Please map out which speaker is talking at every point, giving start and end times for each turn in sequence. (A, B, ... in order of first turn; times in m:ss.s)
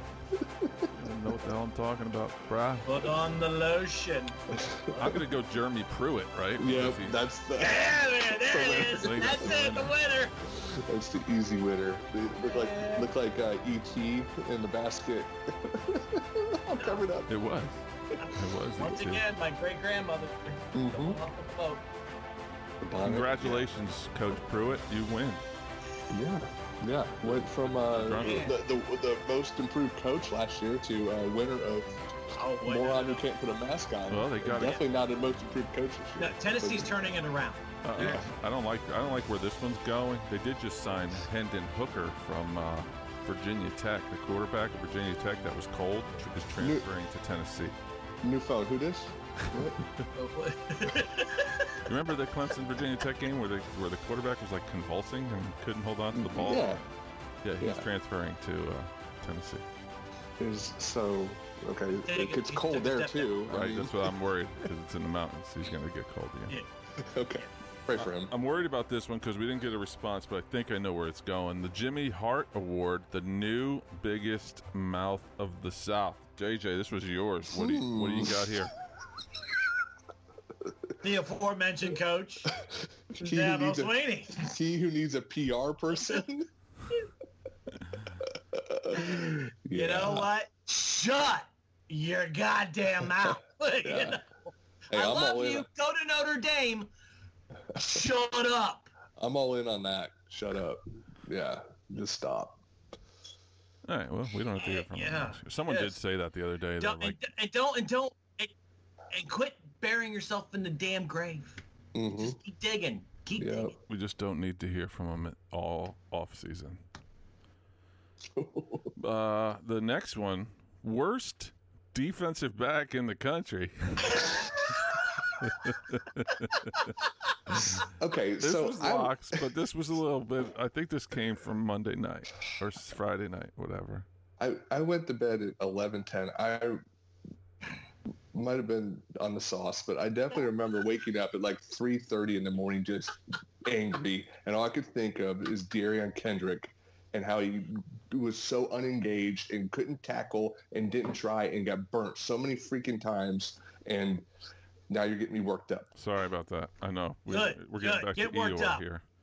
0:00.4-0:00.9 A
0:00.9-0:03.1 B
0:02.8-0:05.2 C
0:04.5-0:05.2 A
0:05.0-0:07.2 B
0:06.6-0:09.6 A
0:07.6-0:10.3 C
0:09.0-0:10.0 B
0:10.5-0:17.3 A
0:12.4-0:13.1 C
0:16.7-0:17.1 C
0:17.3-0:19.2 B
0:18.2-0:21.8 C
0:20.7-0:21.2 A
0:22.8-0:23.7 A
0:23.0-0:25.4 B
0:26.1-0:31.9 A
0:27.2-0:28.5 B
0:28.1-0:28.6 C
0:32.4-0:33.3 C
0:32.6-0:37.1 A
0:34.1-0:34.8 B
0:36.2-0:38.3 C
0:37.8-0:47.8 B
0:38.0-0:38.3 A
0:46.6-0:46.9 A
0:48.2-0:49.8 A
0:50.2-0:51.8 C
0:51.8-0:56.9 B
0:56.1-0:56.8 A
0:57.4-0:59.6 B
0:57.6-0:57.9 A
1:00.4-1:04.1 A
1:02.0-1:03.4 C
1:03.5-1:06.6 B
1:07.0-1:08.3 A
1:07.9-1:18.7 B
1:17.5-1:18.6 A
1:21.0-1:22.5 C
1:22.6-1:26.5 A
1:23.2-1:24.5 C
1:28.2-1:30.3 A
1:29.0-1:34.3 C
1:33.2-1:34.2 A
1:34.9-1:35.7 A
1:34.9-1:36.9 C
1:37.7-1:38.0 A
1:37.8-1:38.9 C
1:39.2-1:42.6 A
1:43.8-1:47.2 B
1:44.6-1:46.0 C
1:46.8-1:48.5 C
1:49.1-1:51.6 C
1:52.0-1:52.4 A
1:52.2-1:53.7 C
1:53.4-1:53.7 A
1:53.9-1:56.8 B
1:58.3-1:58.9 A
1:59.0-2:04.5 B
2:05.4-2:07.0 B
2:07.5-2:07.8 B
2:07.8-2:09.4 A
2:08.4-2:14.1 B
2:14.4-2:16.8 A
2:18.3-2:34.3 A
2:34.9-2:35.9 A
2:36.0-2:39.0 B
2:37.3-2:38.8 C